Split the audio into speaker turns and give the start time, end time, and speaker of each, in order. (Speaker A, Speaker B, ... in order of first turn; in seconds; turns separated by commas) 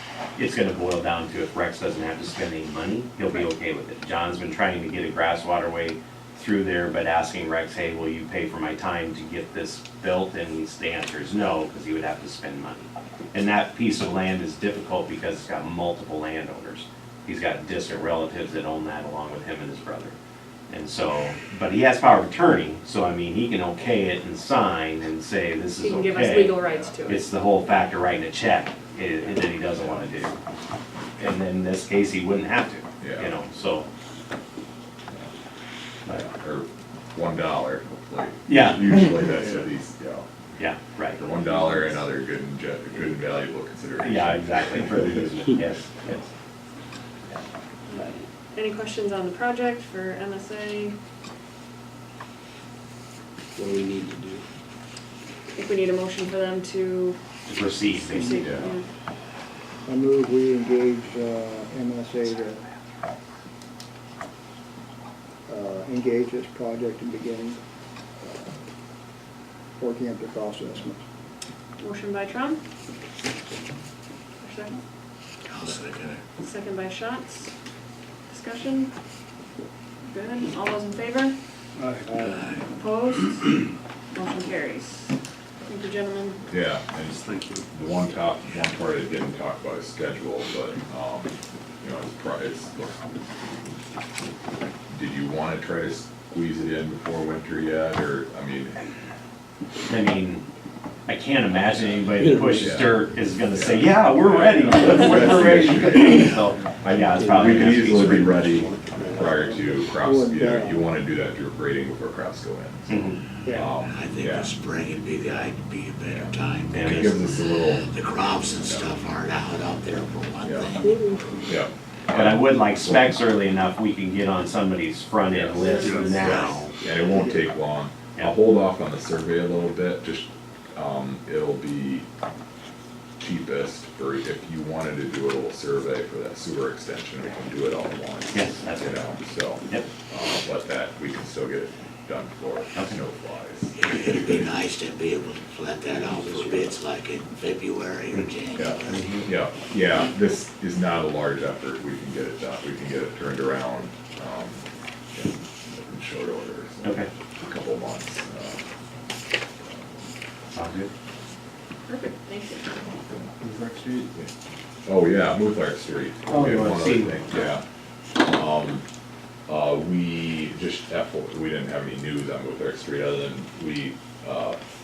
Speaker A: 0.3-20.2, Speaker A: 20.7-30.4, Speaker B: 25.8-27.2, Speaker C: 26.6-26.9, Speaker A: 31.2-33.9, Speaker C: 33.0-33.3, Speaker C: 36.1-40.3, Speaker A: 38.5-39.1, Speaker A: 40.6-41.2, Speaker C: 41.2-45.1, Speaker A: 44.0-46.3, Speaker B: 47.9-50.9, Speaker D: 53.6-54.4, Speaker B: 55.5-57.2, Speaker A: 57.5-58.4, Speaker B: 57.9-58.9, Speaker C: 58.3-58.7, Speaker E: 59.9-62.6, Speaker E: 65.5-67.6, Speaker E: 68.2-68.6, Speaker E: 69.8-71.0, Speaker B: 71.8-72.6, Speaker B: 74.4-74.8, Speaker F: 75.5-76.2, Speaker B: 76.4-77.5, Speaker B: 78.3-78.9, Speaker B: 80.1-81.4, Speaker D: 81.8-82.6, Speaker E: 82.0-82.5, Speaker F: 82.3-82.6, Speaker B: 82.7-83.6, Speaker B: 84.1-85.1, Speaker B: 85.7-86.4, Speaker C: 86.5-93.0, Speaker D: 87.1-87.6, Speaker C: 94.9-98.8, Speaker A: 99.9-100.4, Speaker A: 101.1-108.4, Speaker C: 101.7-103.0, Speaker C: 103.5-114.5, Speaker D: 105.5-106.0, Speaker D: 107.2-109.2, Speaker E: 109.0-110.9, Speaker A: 112.9-113.2, Speaker E: 113.4-113.7, Speaker F: 113.9-121.2, Speaker C: 116.1-117.9, Speaker A: 116.7-117.2, Speaker C: 118.5-119.0, Speaker C: 120.4-120.8, Speaker E: 120.8-121.3, Speaker C: 121.5-123.1, Speaker A: 122.1-126.7, Speaker C: 125.3-132.1, Speaker B: 125.6-126.3, Speaker D: 125.8-126.3, Speaker F: 126.2-126.7, Speaker C: 133.2-144.4, Speaker A: 138.3-139.1, Speaker F: 143.8-149.1, Speaker E: 145.9-146.8, Speaker C: 148.6-158.6, Speaker A: 148.9-149.3, Speaker A: 156.8-157.1, Speaker C: 159.6-159.9, Speaker A: 160.5-160.9, Speaker B: 161.9-162.8, Speaker C: 162.8-163.3, Speaker D: 163.4-164.1, Speaker C: 164.9-167.6, Speaker A: 166.3-167.5, Speaker C: 168.2-168.8, Speaker C: 169.5-174.6